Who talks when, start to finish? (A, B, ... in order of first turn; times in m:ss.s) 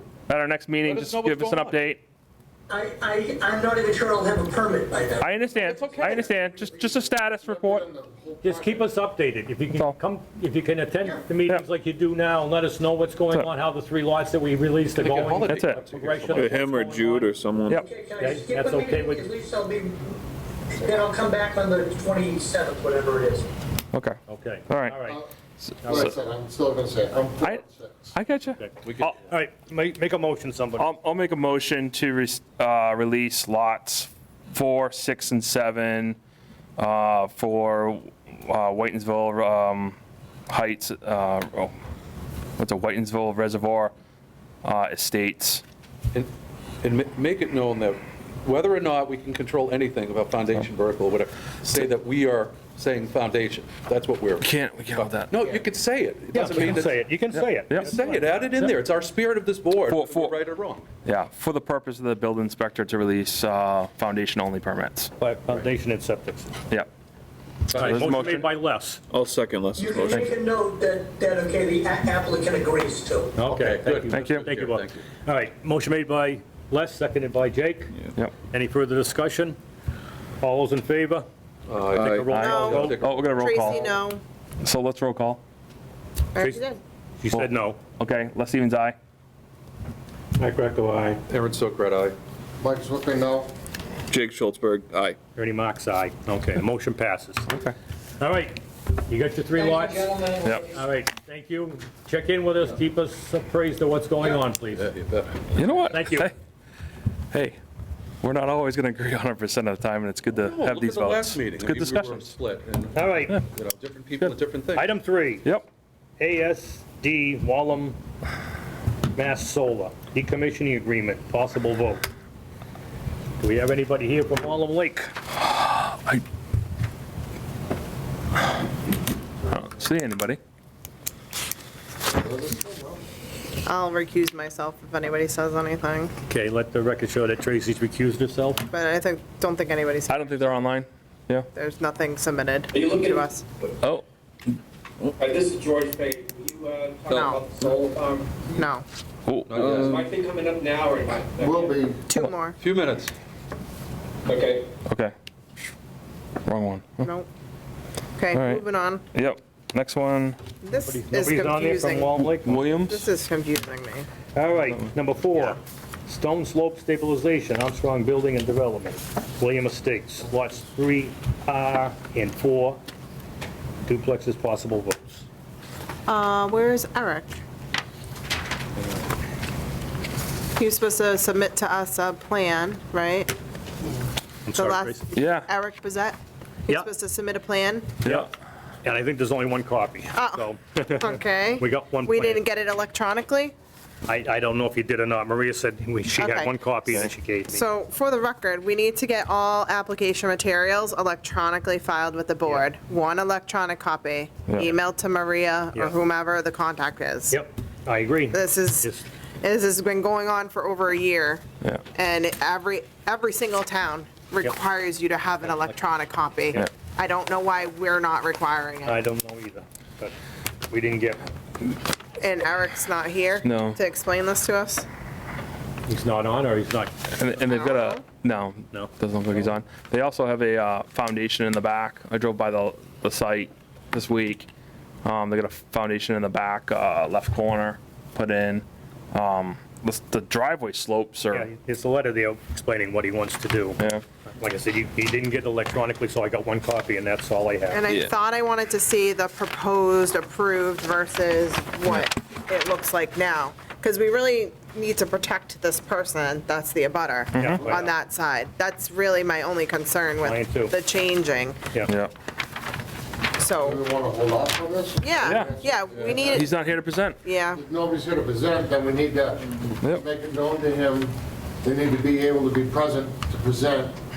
0:00.3-0:02.0 A
0:00.8-0:01.8 B
0:02.7-0:05.2 C
0:05.2-0:07.9 A
0:05.6-0:06.4 B
0:07.4-0:08.9 D
0:08.4-0:17.3 E
0:09.7-0:10.0 A
0:14.9-0:16.7 B
0:15.5-0:15.8 A
0:16.3-0:17.9 F
0:17.9-0:20.2 C
0:18.2-0:19.4 E
0:20.7-0:23.5 C
0:23.9-0:24.2 A
0:24.3-0:25.2 E
0:24.7-0:25.1 A
0:25.6-0:26.1 A
0:25.8-0:26.1 E
0:25.8-0:28.1 D
0:28.1-0:29.2 A
0:28.6-0:30.9 E
0:28.8-0:29.2 B
0:30.8-0:36.2 A
0:36.8-0:40.0 A
0:40.5-0:41.7 A
0:42.6-0:43.9 A
0:44.6-0:45.6 A
0:46.8-1:00.9 B
0:54.4-0:55.4 A
0:56.3-0:58.7 E
0:59.9-1:00.4 A
1:01.0-1:05.1 A
1:05.2-1:06.5 E
1:07.7-1:08.1 B
1:07.7-1:09.0 E
1:07.8-1:08.5 F
1:09.1-1:10.4 F
1:09.8-1:13.3 C
1:10.0-1:10.3 A
1:13.4-1:17.9 E
1:13.4-1:15.1 B
1:14.1-1:14.6 A
1:18.5-1:19.6 E
1:20.4-1:21.3 E
1:21.7-1:23.8 B
1:22.0-1:23.1 E
1:22.0-1:22.4 F
1:22.3-1:24.0 A
1:22.4-1:24.2 G
1:24.6-1:25.4 A
1:26.3-1:26.8 G
1:27.2-1:27.8 E
1:27.3-1:29.0 A
1:30.4-1:31.2 E
1:31.3-1:32.2 B
1:32.6-1:33.5 D
1:34.1-1:35.2 F
1:35.4-1:37.5 E
1:37.5-1:37.8 A
1:38.2-1:40.2 E
1:39.6-1:40.8 C
1:40.4-1:40.8 A
1:40.8-1:44.9 E
1:44.7-1:45.6 B
1:45.6-1:46.3 A
1:45.9-1:46.3 E
1:47.3-1:47.6 A
1:48.2-1:52.3 A
1:50.3-1:54.9 B
1:52.9-1:53.4 E
1:54.7-1:55.5 E
1:56.2-1:58.0 E
1:59.2-2:02.0 E
2:03.4-2:05.1 E
2:05.4-2:06.2 A
2:09.5-2:10.4 A
2:12.0-2:13.0 D
2:13.7-2:16.1 G
2:16.3-2:18.6 E
2:18.7-2:20.4 G
2:20.1-2:21.5 A
2:21.5-2:23.4 G
2:22.7-2:23.3 H
2:25.1-2:28.5 H
2:27.1-2:27.4 G
2:28.6-2:28.8 G
2:29.3-2:29.9 A
2:29.5-2:30.1 B
2:29.8-2:31.8 H
2:31.4-2:32.0 D
2:32.1-2:32.6 G
2:32.6-2:33.1 B
2:34.3-2:34.7 H
2:34.8-2:35.1 A
2:36.5-2:37.1 A
2:37.0-2:37.3 G
2:38.2-2:39.0 G
2:38.3-2:38.6 A
2:39.1-2:40.4 A
2:40.6-2:42.1 G
2:40.7-2:42.6 E
2:42.2-2:43.1 A
2:42.7-2:44.1 G
2:44.3-2:52.8 E
2:53.9-2:55.2 E
2:56.1-2:57.4 G
3:00.6-3:03.3 G
3:04.5-3:05.0 E
3:04.5-3:08.0 G
3:05.2-3:05.5 A
3:08.0-3:08.3 A
3:08.8-3:12.5 E
3:10.1-3:13.5 G
3:14.1-3:17.7 E
3:16.2-3:27.4 G
3:24.5-3:24.7 A
3:27.3-3:29.0 E
3:28.3-3:28.9 G
3:29.4-3:31.4 G
3:31.9-3:39.0 G
3:35.5-3:35.7 E
3:38.8-3:40.1 E
3:40.7-3:41.3 E
3:42.2-3:44.9 G
3:43.4-3:43.8 A
3:45.9-3:46.9 E
3:47.1-3:54.5 A
3:47.5-3:48.0 G
3:55.0-4:01.5 A
4:01.3-4:03.8 E
4:04.4-4:07.8 E
4:07.7-4:21.6 G
4:07.9-4:08.1 A
4:17.3-4:17.6 A
4:17.4-4:17.9 E
4:20.2-4:20.8 E
4:21.8-4:22.1 A
4:23.4-4:23.8 G
4:23.6-4:26.5 D
4:25.0-4:26.6 G
4:25.2-4:25.6 A
4:26.2-4:27.2 A
4:27.2-4:27.6 G
4:27.5-4:34.0 D